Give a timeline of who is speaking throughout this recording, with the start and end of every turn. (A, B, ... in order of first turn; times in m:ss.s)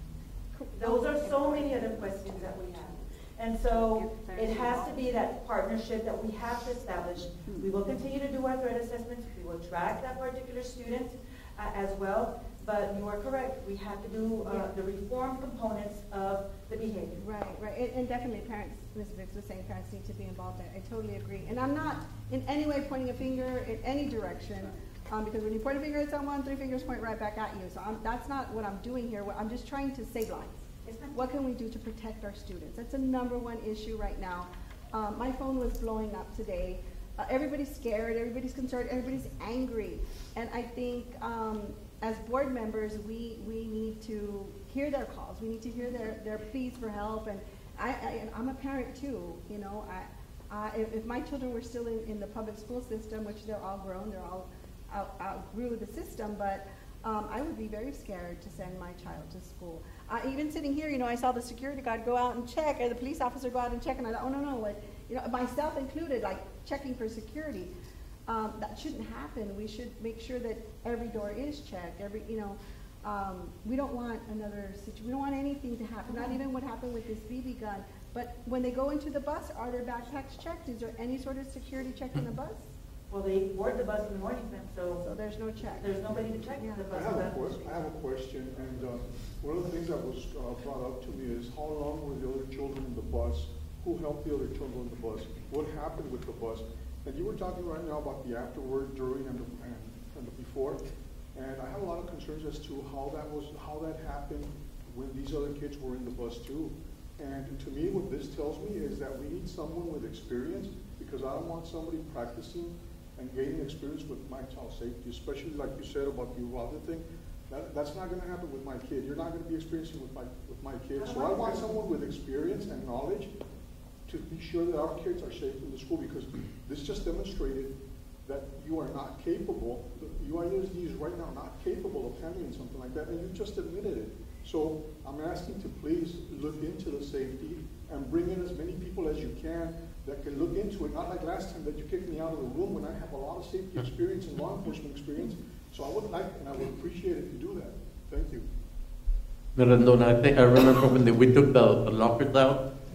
0:00.5-0:02.9 A
0:00.8-0:17.2 B
0:03.7-0:05.0 A
0:17.2-1:07.7 A
1:08.3-1:22.7 A
1:23.1-1:25.0 B
1:25.0-1:27.7 A
1:25.8-1:27.7 B
1:26.9-1:40.8 C
1:41.4-2:03.3 C
2:01.0-2:01.7 B
2:04.1-2:28.5 C
2:29.6-2:32.7 D